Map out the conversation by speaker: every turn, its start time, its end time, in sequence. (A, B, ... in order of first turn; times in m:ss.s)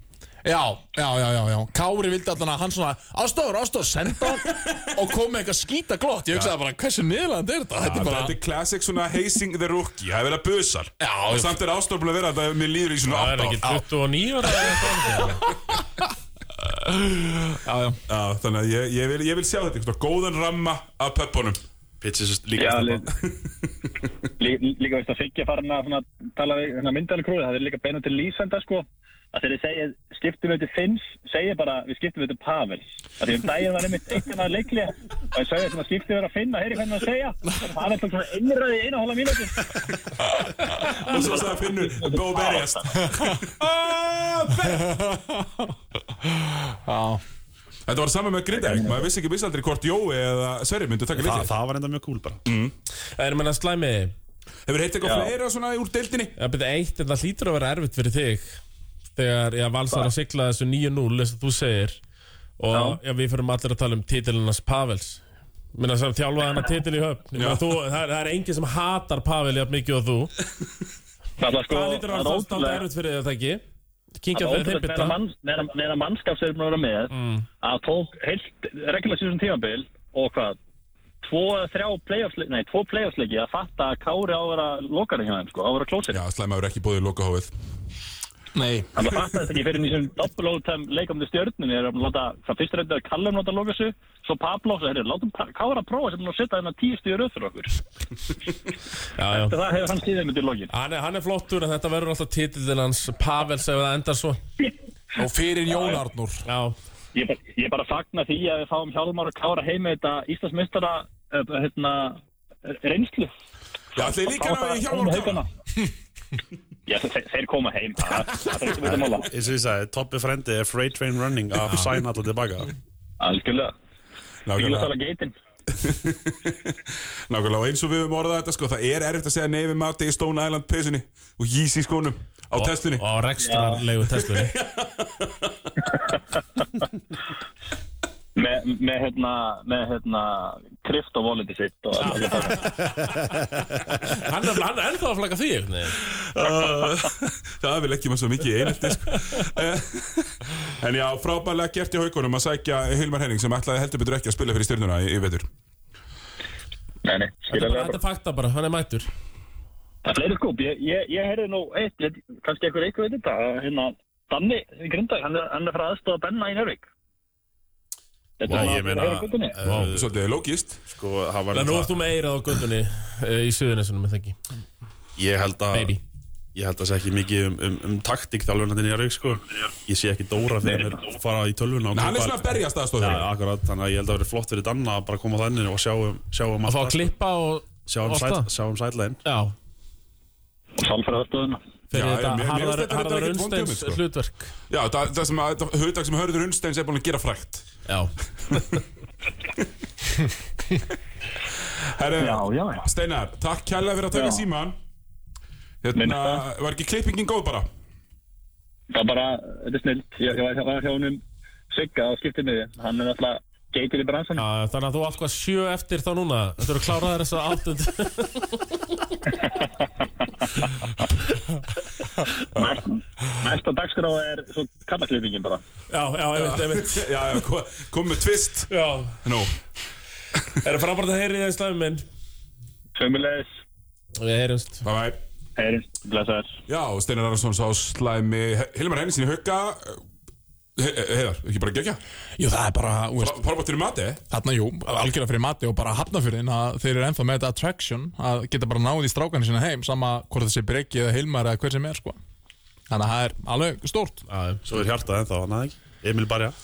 0:00.4-0:08.4 A
0:07.8-0:13.8 B
0:11.0-0:11.6 A
0:13.1-0:15.4 C
0:16.9-0:18.0 A
0:18.1-0:21.6 B
0:22.0-0:23.1 D
0:22.6-0:23.1 E
0:24.4-0:39.8 E
0:40.9-0:45.0 B
0:41.1-0:42.8 E
0:44.7-0:45.7 A
0:46.3-0:47.2 A
0:47.9-0:51.5 B
0:48.6-0:49.0 E
0:51.2-0:52.4 D
0:52.5-0:52.7 B
0:53.2-0:54.1 C
0:54.7-0:56.3 B
0:55.0-0:55.3 E
0:56.4-0:58.6 C
0:59.2-1:02.0 C
1:02.6-1:05.2 C
1:02.7-1:03.0 E
1:05.7-1:10.3 C
1:07.3-1:07.7 B
1:11.4-1:12.8 E
1:11.7-1:13.6 C
1:14.2-1:15.2 C
1:14.3-1:20.6 E
1:17.1-1:17.5 C
1:21.2-1:26.2 E
1:26.1-1:27.5 B
1:28.6-1:28.9 A
1:29.0-1:37.8 E
1:39.2-1:39.6 C
1:39.3-1:40.7 E
1:40.7-1:44.4 C
1:45.2-1:46.4 A
1:45.7-1:46.0 E
1:46.5-1:46.8 C
1:47.1-1:53.3 E
1:54.0-1:55.4 B
1:54.0-1:55.5 E
1:56.9-1:59.3 E
1:58.8-2:02.7 D
2:03.2-2:03.7 E
2:04.5-2:04.9 B
2:04.5-2:05.3 E
2:05.7-2:13.0 B
2:12.6-2:14.6 C
2:13.4-2:13.8 E
2:14.2-2:15.4 B
2:18.4-2:22.8 E
2:22.0-2:26.0 C
2:26.1-2:35.5 B
2:37.0-2:38.0 E
2:37.5-2:39.1 C
2:40.0-2:46.9 E
2:48.4-2:49.6 E
2:48.5-2:50.1 D
2:49.6-2:49.9 C
2:49.9-2:50.8 B
2:50.8-2:52.0 D
2:51.5-2:54.4 C
2:55.2-2:56.0 D
2:55.7-2:56.0 C
2:56.6-3:07.1 D
3:01.9-3:03.3 B
3:06.7-3:08.5 C
3:07.9-3:09.2 D
3:09.2-3:09.5 C
3:10.8-3:11.6 E
3:11.9-3:14.5 C
3:11.9-3:14.0 B
3:14.7-3:17.7 B
3:17.9-3:18.1 C
3:21.6-3:24.8 B
3:22.2-3:22.8 E
3:24.1-3:24.4 E
3:25.8-3:27.7 B
3:26.0-3:26.4 E
3:28.9-3:34.4 E
3:34.4-3:38.6 C
3:42.5-3:45.6 E
3:45.9-3:47.1 C
3:46.4-3:49.6 B
3:48.7-3:49.2 C
3:50.6-3:52.0 C
3:53.0-3:53.5 E
3:54.2-3:54.8 C
3:54.8-3:55.2 B
3:55.6-3:56.6 E
3:56.7-4:00.0 B
4:00.8-4:02.0 B
4:02.4-4:03.4 A
4:03.2-4:04.2 B
4:04.3-4:12.2 A
4:12.9-4:14.2 A
4:14.3-4:14.6 C
4:14.6-4:16.6 D